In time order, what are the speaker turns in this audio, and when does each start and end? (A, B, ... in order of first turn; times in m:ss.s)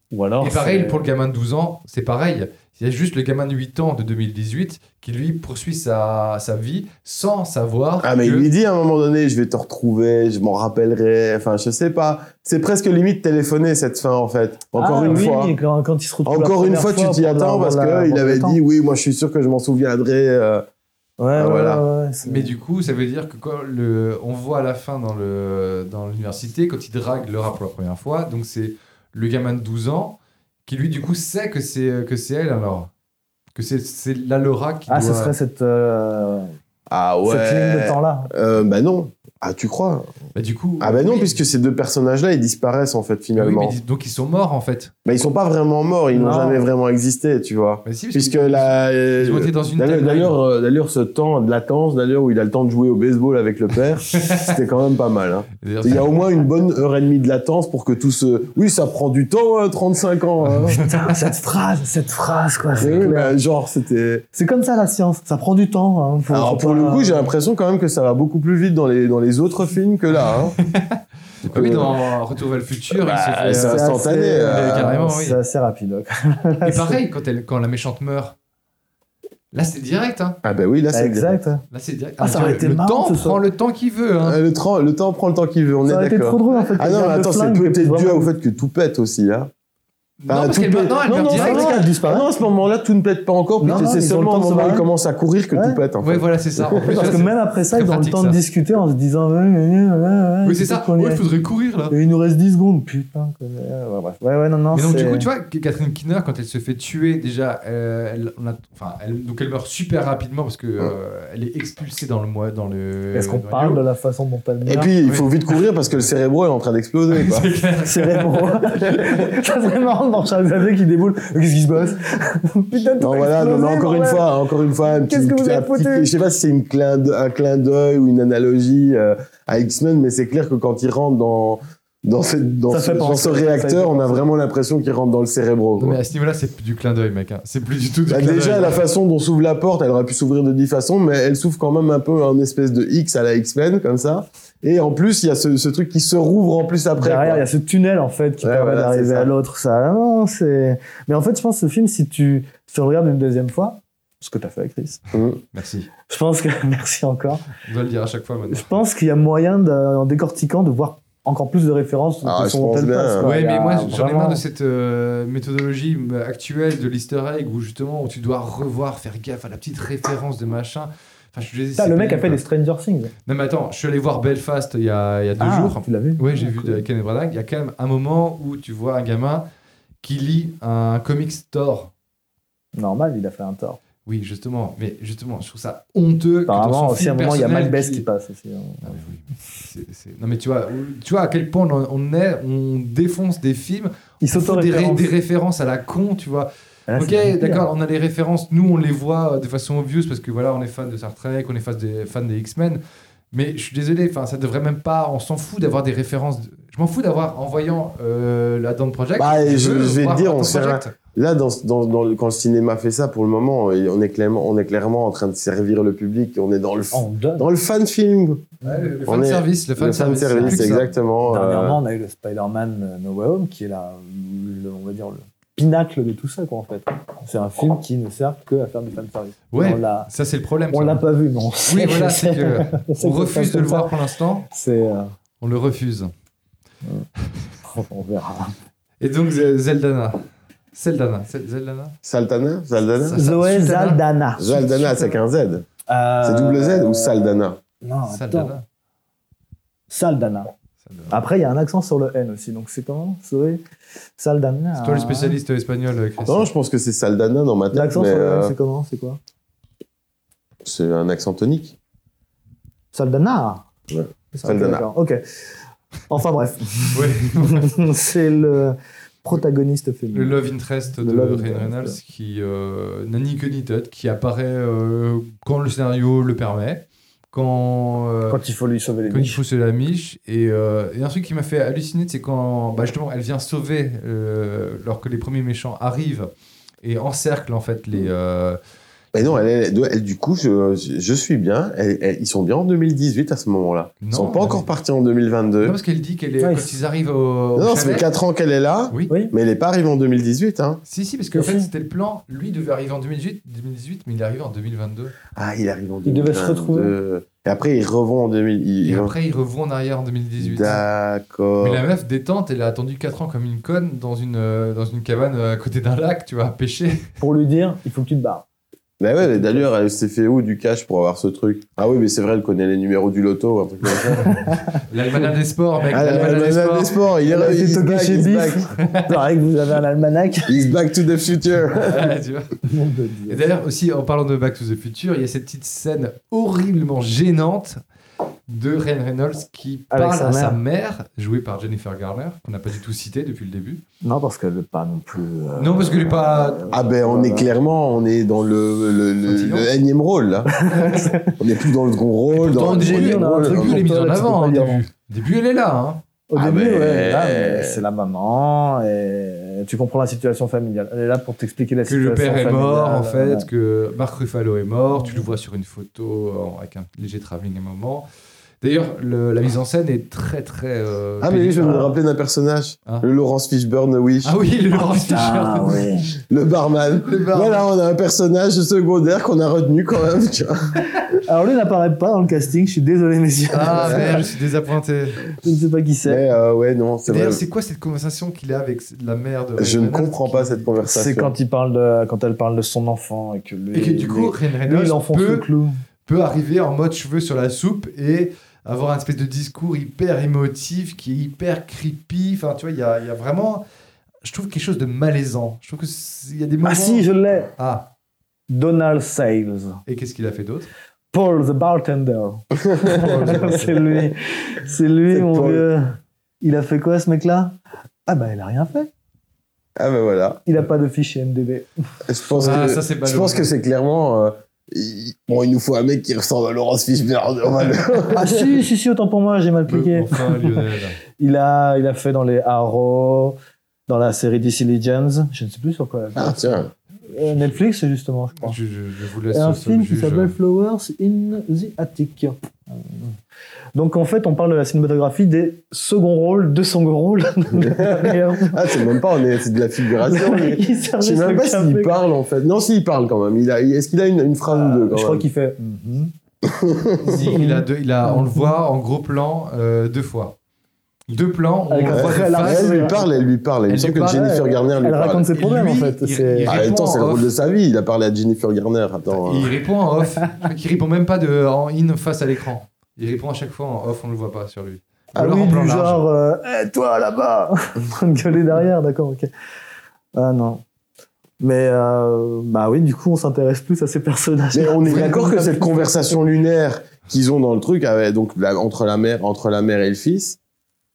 0:00.1-0:01.0 A
0:00.4-0:08.5 B
0:08.0-0:15.5 C
0:14.8-0:18.6 A
0:16.2-0:20.6 C
0:21.2-0:22.5 A
0:21.4-0:21.8 C
0:22.2-0:32.9 B
0:33.5-0:35.3 B
0:34.9-0:36.5 A
0:36.9-0:40.1 C
0:37.2-0:38.3 A
0:40.3-0:41.4 B
0:40.8-0:43.8 C
0:43.4-0:44.9 B
0:45.0-1:00.8 C
0:46.1-0:46.6 A
0:47.8-0:50.4 B
0:54.2-0:54.5 B
0:55.6-0:56.2 B
1:00.7-1:03.4 A
1:02.8-1:03.1 B
1:02.8-1:04.2 C
1:04.3-1:07.3 A
1:06.3-1:10.6 C
1:10.6-1:15.4 B
1:11.4-1:12.0 C
1:12.9-1:14.9 C
1:13.5-1:17.0 A
1:16.6-1:18.3 B
1:19.5-1:20.4 B
1:20.4-1:21.4 C
1:20.9-1:21.6 A
1:21.7-1:24.4 B
1:22.2-1:23.4 A
1:24.2-1:29.5 C
1:25.8-1:28.3 A
1:26.5-1:26.7 B
1:30.2-1:31.8 B
1:30.3-1:37.2 C
1:31.3-1:32.3 A
1:33.6-1:34.9 A
1:35.5-1:35.8 A
1:36.0-1:38.4 B
1:36.8-1:41.2 A
1:40.4-1:41.9 B
1:41.9-1:45.3 A
1:44.7-1:53.8 B
1:53.1-1:54.9 A
1:54.6-1:57.5 C
1:55.0-1:55.4 B
1:57.1-1:58.6 B
1:57.8-2:04.3 A
1:58.9-1:59.2 C
2:03.0-2:16.0 C
2:04.8-2:06.1 A
2:12.7-2:14.2 A
2:15.8-2:18.8 B
2:18.1-2:27.4 C
2:27.0-2:35.0 A
2:28.4-2:29.3 C
2:35.1-2:35.4 C
2:35.5-2:35.9 B
2:36.1-2:37.5 A
2:37.6-2:38.8 B
2:38.5-2:44.4 A
2:42.2-2:43.3 C
2:43.2-2:52.4 B
2:51.8-2:53.1 A
2:53.2-2:59.4 B
2:55.4-2:56.8 A
3:00.0-3:01.9 B
3:02.8-3:03.8 A
3:04.0-3:08.0 B
3:06.5-3:09.0 A
3:08.8-3:22.8 B
3:14.2-3:15.1 A
3:16.9-3:17.7 A
3:23.3-3:31.0 B
3:29.2-3:38.4 C
3:36.9-3:37.5 A
3:38.6-3:40.9 B
3:39.0-3:41.8 C
3:41.2-3:50.1 A
3:49.5-3:51.0 B
3:50.7-3:53.9 A
3:51.6-3:54.5 B
3:54.5-3:55.1 A
3:55.4-3:56.1 B
3:57.6-3:58.5 A
3:59.0-4:01.9 B
4:02.0-4:03.2 C
4:03.0-4:05.2 B
4:03.1-4:04.5 A
4:04.4-4:05.6 C
4:05.9-4:08.5 A
4:06.2-4:07.6 C
4:08.1-4:08.6 B
4:09.9-4:10.5 A
4:10.8-4:11.1 B
4:11.1-4:13.6 A
4:14.2-4:15.4 A
4:14.8-4:16.5 B
4:16.2-4:18.5 C
4:17.7-4:19.2 A
4:20.6-4:21.8 C
4:22.9-4:23.7 A
4:23.9-4:24.9 C
4:24.3-4:25.2 A
4:26.1-4:30.4 A
4:26.9-4:27.7 B
4:30.1-4:38.4 B
4:31.0-4:32.0 A
4:38.3-4:39.4 A
4:39.1-4:46.3 B
4:46.8-4:48.6 B
4:49.1-4:55.8 C
4:54.0-4:54.7 B
4:55.6-4:58.1 B
4:56.4-4:56.7 A
4:57.6-5:00.8 C
5:00.9-5:05.1 B
5:01.3-5:01.7 A
5:05.3-5:09.1 C
5:06.0-5:06.9 A
5:08.8-5:10.8 B
5:10.4-5:11.8 C
5:11.6-5:17.0 B
5:17.2-5:18.4 A
5:19.0-5:24.4 C
5:19.2-5:19.6 A
5:24.8-5:27.0 B
5:25.9-5:28.6 C
5:27.3-5:30.7 A
5:28.8-5:29.1 B
5:30.5-5:32.0 C
5:31.7-5:32.6 B
5:32.6-5:33.4 A
5:33.3-5:37.8 B
5:38.5-5:43.8 B
5:39.9-5:40.6 A
5:44.0-5:47.5 A
5:45.6-5:46.6 B
5:46.7-5:50.7 C
5:49.2-5:49.7 B
5:50.6-5:51.3 A
5:51.4-5:53.8 C
5:52.3-5:56.0 B
5:52.6-5:54.8 A
5:56.3-6:03.5 A
5:56.4-5:57.8 C
6:01.9-6:08.1 B
6:04.9-6:05.3 A
6:08.6-6:11.9 B
6:11.2-6:14.3 C
6:14.2-6:15.9 B
6:14.9-6:16.1 A
6:16.3-6:20.8 C
6:17.0-6:17.6 B
6:21.2-6:24.2 A
6:23.5-6:25.2 B
6:23.8-6:24.2 C
6:25.4-6:26.2 A
6:26.0-6:27.4 C
6:27.1-6:30.7 B
6:29.6-6:31.3 C
6:30.8-6:35.7 A
6:33.7-6:35.5 B
6:36.1-6:43.6 B
6:44.2-6:47.9 B
6:46.6-6:47.5 A
6:48.5-6:49.8 A
6:49.9-6:50.7 B
6:51.1-6:58.9 A
6:52.5-6:54.0 C
6:53.0-6:53.7 B
6:55.1-6:55.6 C
6:59.8-7:00.4 C
7:00.5-7:01.7 A
7:02.0-7:08.6 C
7:02.3-7:02.6 A
7:02.4-7:03.5 B
7:08.1-7:10.6 A
7:09.7-7:11.0 B
7:11.2-7:13.4 A
7:13.9-7:16.6 A
7:16.2-7:16.7 C
7:17.1-7:18.6 A
7:18.4-7:20.3 B
7:19.3-7:23.2 A
7:23.7-7:28.9 A
7:27.6-7:35.2 C
7:30.0-7:32.0 A
7:34.5-7:36.1 A
7:36.4-7:37.4 C
7:37.0-7:38.5 A
7:37.2-7:40.4 B
7:41.1-7:43.0 B
7:41.7-7:43.2 A
7:41.9-7:45.3 C
7:43.7-7:44.3 B
7:44.1-7:46.5 A
7:45.4-7:47.3 B
7:46.5-7:49.5 C
7:49.1-7:56.0 B
7:55.1-7:59.3 A
8:00.1-8:00.6 A
8:01.4-8:05.8 A
8:04.5-8:10.4 C
8:04.9-8:05.2 B